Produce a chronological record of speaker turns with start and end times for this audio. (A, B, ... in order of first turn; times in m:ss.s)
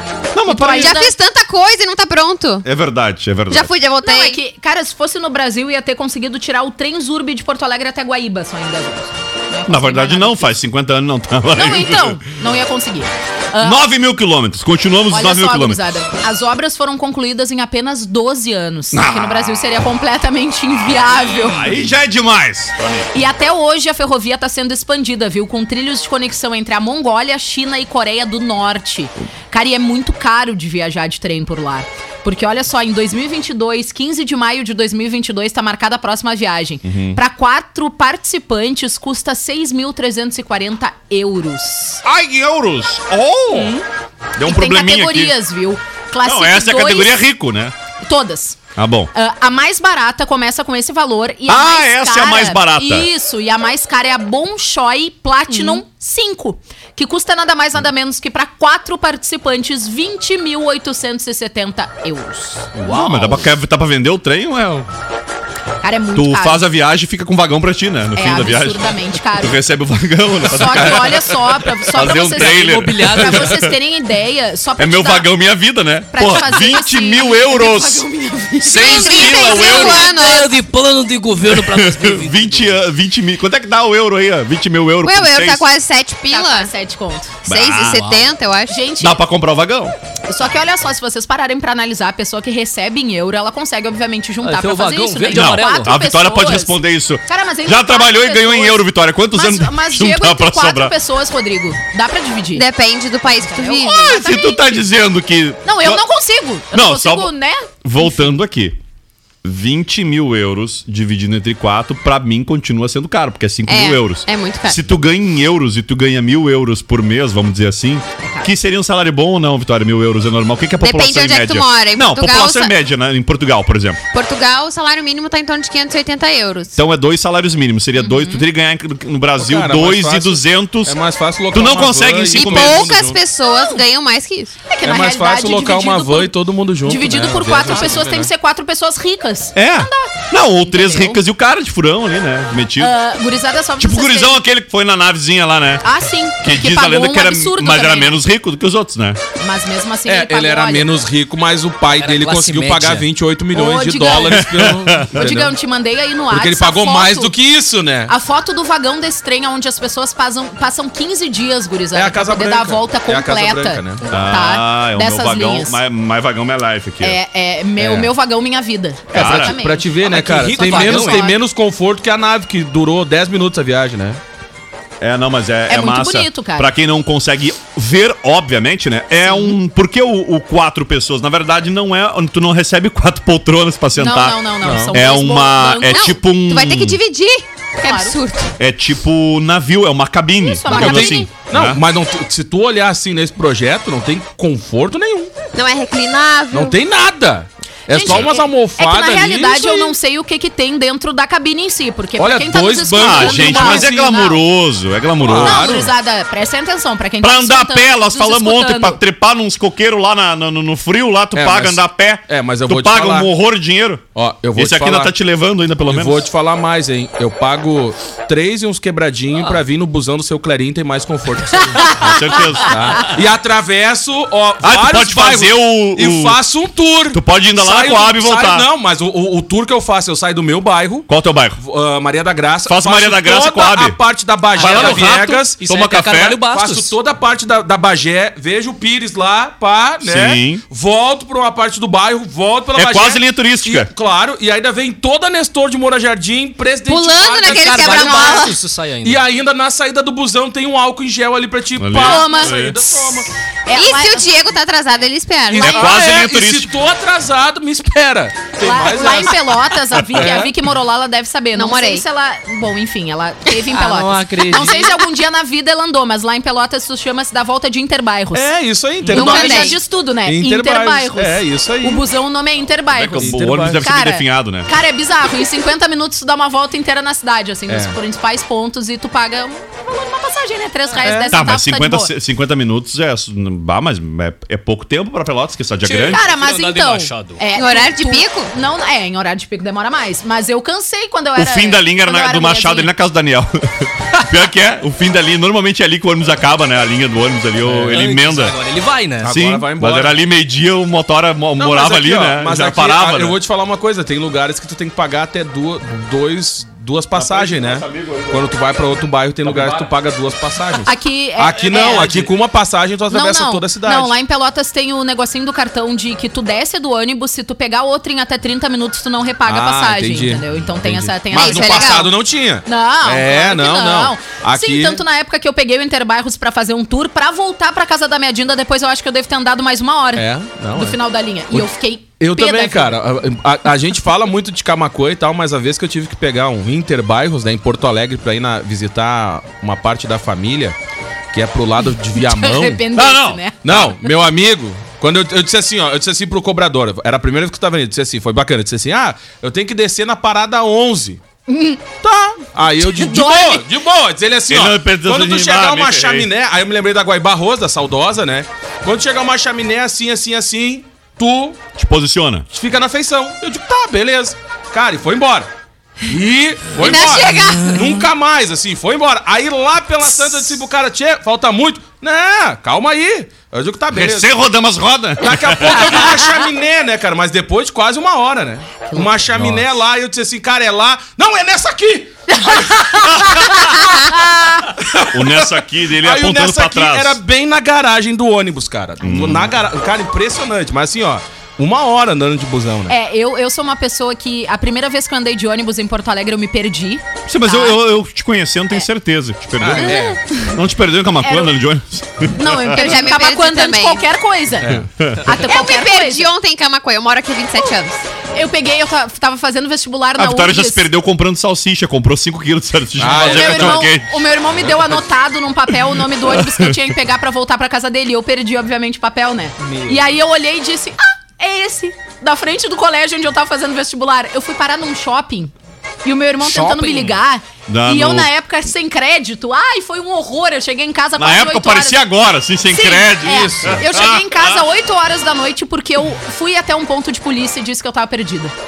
0:00.3-0:01.0 A
0:00.5-0:01.1 B
0:00.7-0:02.6 C
0:02.6-0:03.7 A
0:03.5-0:04.4 C
0:04.0-0:10.6 B
0:09.7-0:12.2 A
0:11.5-0:13.8 B
0:13.6-0:15.8 A
0:15.1-0:21.7 B
0:18.9-0:19.7 A
0:21.3-0:23.1 A
0:23.1-0:42.0 B
0:36.8-0:37.2 A
0:42.0-0:43.8 A
0:43.5-0:43.8 B
0:44.4-0:45.4 A
0:44.4-0:47.2 B
0:46.2-0:47.7 A
0:48.0-0:48.6 B
0:48.8-0:49.1 A
0:49.1-1:03.5 B
0:51.5-0:53.1 A
1:02.8-1:04.9 A
1:05.8-1:06.7 B
1:06.1-1:13.8 A
1:08.2-1:09.6 B
1:10.5-1:15.3 B
1:11.9-1:13.7 D
1:14.8-1:18.0 A
1:16.1-1:19.8 B
1:18.6-1:20.1 A
1:18.7-1:20.6 C
1:19.1-1:22.8 D
1:21.4-1:25.7 A
1:25.0-1:26.7 C
1:26.3-1:27.4 B
1:27.4-1:28.8 C
1:27.5-1:28.2 A
1:27.9-1:28.2 D
1:28.7-1:29.2 B
1:29.0-1:30.0 A
1:30.3-1:42.7 B
1:34.4-1:35.9 D
1:35.3-1:40.9 A
1:42.5-1:44.2 C
1:43.4-1:44.8 B
1:44.0-1:46.0 A
1:45.6-1:48.3 B
1:46.7-1:47.3 A
1:47.8-1:48.8 A
1:49.4-2:04.0 A
1:53.7-1:54.9 C
1:58.2-1:58.5 B
2:00.8-2:02.7 C
2:04.1-2:06.8 C
2:06.8-2:11.0 A
2:08.0-2:08.5 B
2:09.4-2:13.2 E
2:11.5-2:13.0 A
2:12.3-2:14.5 C
2:13.5-2:13.8 B
2:14.7-2:16.3 B
2:14.8-2:18.3 E
2:16.9-2:21.2 B
2:19.6-2:23.0 A
2:22.8-2:24.4 B
2:23.8-2:29.2 A
2:25.8-2:28.2 B
2:29.4-2:30.9 B
2:30.1-2:35.5 E
2:31.9-2:33.1 D
2:33.6-2:34.5 B
2:34.3-2:35.3 A
2:35.1-2:37.3 B
2:36.3-2:38.1 E
2:38.1-2:45.8 B
2:41.9-2:44.0 E
2:44.1-2:47.2 A
2:47.0-2:51.4 B
2:49.1-2:54.2 E
2:49.1-2:49.6 A
2:50.0-2:51.4 D
2:55.0-3:04.4 A
2:55.7-2:56.7 B
2:59.3-2:59.6 B
3:04.0-3:06.2 B
3:04.6-3:04.9 E
3:04.9-3:07.0 A
3:05.9-3:08.5 C
3:07.8-3:08.2 B
3:08.6-3:11.8 A
3:10.4-3:11.3 B
3:10.7-3:15.3 E
3:15.6-3:16.8 C
3:16.5-3:20.0 E
3:17.9-3:24.4 B
3:22.2-3:23.9 E
3:23.0-3:25.9 A
3:25.2-3:25.9 E
3:25.4-3:29.0 B
3:27.2-3:36.3 A
3:31.4-3:33.3 E
3:34.2-3:35.1 E
3:35.9-3:42.1 E
3:41.8-3:42.1 B
3:42.0-3:43.1 A
3:42.6-3:55.7 E
3:44.6-3:46.4 A
3:47.1-3:48.7 A
3:51.1-3:51.6 A
3:52.7-3:54.0 A
3:54.6-3:56.4 A
3:54.6-3:56.9 D
3:56.4-4:08.5 E
4:00.0-4:00.6 A
4:02.8-4:03.9 A
4:06.9-4:08.6 C
4:07.4-4:09.2 D
4:09.0-4:13.3 E
4:11.8-4:12.8 A
4:12.0-4:12.6 B
4:13.7-4:14.3 B
4:13.7-4:15.9 C
4:15.5-4:19.6 E
4:15.6-4:16.7 A
4:18.6-4:28.5 B
4:19.9-4:20.4 A
4:20.1-4:20.5 E
4:21.6-4:22.0 C
4:23.7-4:25.0 D
4:28.3-4:32.1 E
4:29.1-4:42.1 B
4:29.1-4:29.8 C
4:32.9-4:34.7 A
4:33.2-4:33.8 E
4:37.7-4:38.0 E
4:41.0-4:41.4 E
4:41.2-4:46.2 A
4:45.8-4:47.4 D
4:46.1-4:52.9 B
4:47.6-4:48.5 C
4:51.4-4:58.6 A
4:57.6-4:59.3 D
4:59.2-5:00.2 E
4:59.3-5:03.4 A
5:01.6-5:14.2 E
5:07.2-5:08.4 A
5:09.4-5:09.9 A
5:10.9-5:12.2 B
5:13.1-5:22.0 B
5:19.5-5:25.0 E
5:21.3-5:22.1 C
5:22.7-5:33.0 B
5:30.2-5:31.0 E
5:32.2-5:40.8 E
5:41.3-5:42.8 E
5:42.2-5:43.9 B
5:42.9-5:43.9 A
5:43.6-5:51.2 E
5:51.5-5:51.8 B
5:52.0-6:01.6 E
5:52.8-5:53.6 B
5:54.5-5:56.3 A
6:01.8-6:02.5 A
6:02.5-6:05.5 E
6:06.1-6:14.4 E
6:06.8-6:07.8 C
6:13.9-6:16.1 A
6:15.2-6:23.3 E
6:19.3-6:19.7 A
6:22.4-6:24.7 B
6:24.8-6:33.0 E
6:24.9-6:27.2 A
6:29.0-6:29.5 A
6:32.9-6:37.8 B
6:37.3-6:42.8 A
6:39.6-6:40.2 E
6:39.7-6:40.5 B
6:41.2-6:41.6 B
6:42.3-6:46.3 B
6:42.7-6:44.1 C
6:44.6-6:44.9 E
6:44.7-6:45.3 A
6:45.3-6:48.0 C
6:48.4-6:50.9 B
6:50.2-6:54.2 A
6:53.0-6:53.9 E
6:53.1-7:05.5 B
6:55.9-6:56.9 A
6:59.6-7:00.0 D
7:06.0-7:12.0 B
7:06.4-7:07.2 D
7:07.7-7:08.3 A
7:11.2-7:14.6 A
7:12.7-7:18.5 B
7:13.3-7:13.8 E